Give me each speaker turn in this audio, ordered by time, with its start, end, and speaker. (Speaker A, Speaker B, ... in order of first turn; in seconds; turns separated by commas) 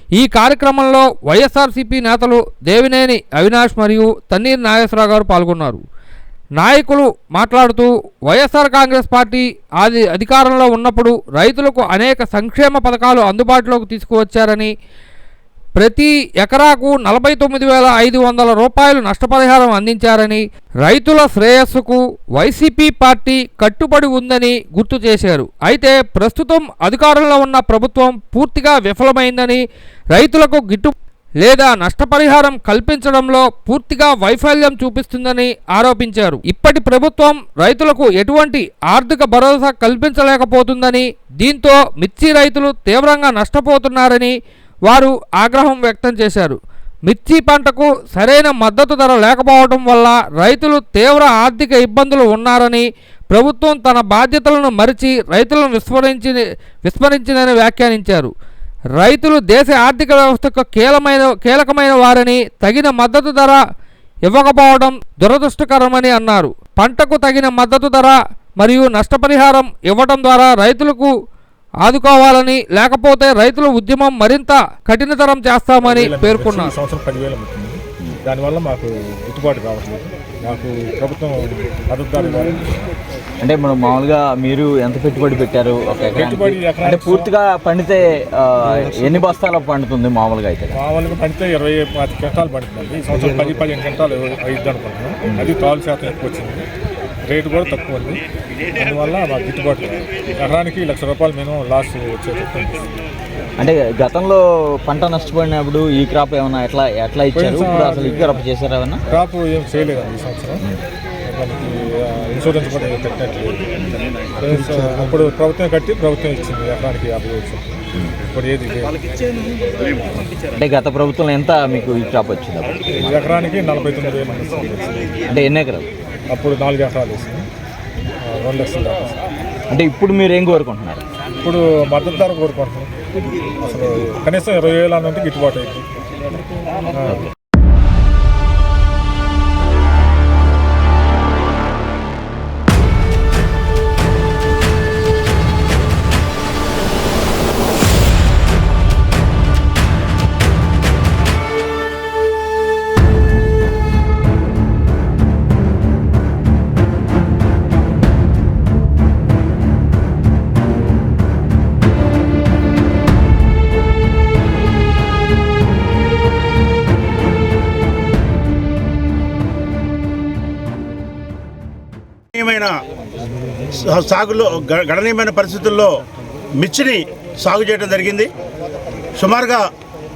Speaker A: 0.2-5.8, Speaker A: 6.6-14.7, Speaker A: 15.8-29.6, Speaker A: 30.1-44.3, Speaker A: 44.9-58.3, Speaker A: 59.0-63.6, Speaker A: 64.3-71.1, Speaker A: 71.8-76.7, Speaker B: 75.9-77.8, Speaker C: 76.0-76.9, Speaker B: 78.4-82.9, Speaker D: 83.4-90.8, Speaker B: 86.1-87.3, Speaker C: 86.5-87.0, Speaker B: 91.0-96.6, Speaker D: 95.2-95.5, Speaker C: 95.3-95.6, Speaker B: 97.3-98.2, Speaker B: 98.8-102.9, Speaker D: 103.6-109.0, Speaker B: 107.3-108.4, Speaker B: 109.1-110.6, Speaker B: 111.3-113.7, Speaker B: 114.4-117.8, Speaker B: 118.3-119.0, Speaker D: 120.6-123.3, Speaker B: 123.0-125.1, Speaker D: 125.3-125.9, Speaker B: 126.3-127.5, Speaker B: 128.2-129.2, Speaker D: 129.7-131.0, Speaker B: 131.4-132.9, Speaker B: 133.6-135.9, Speaker B: 136.9-137.2, Speaker C: 172.3-172.7, Speaker C: 173.7-176.0, Speaker C: 176.6-178.3, Speaker C: 179.2-179.6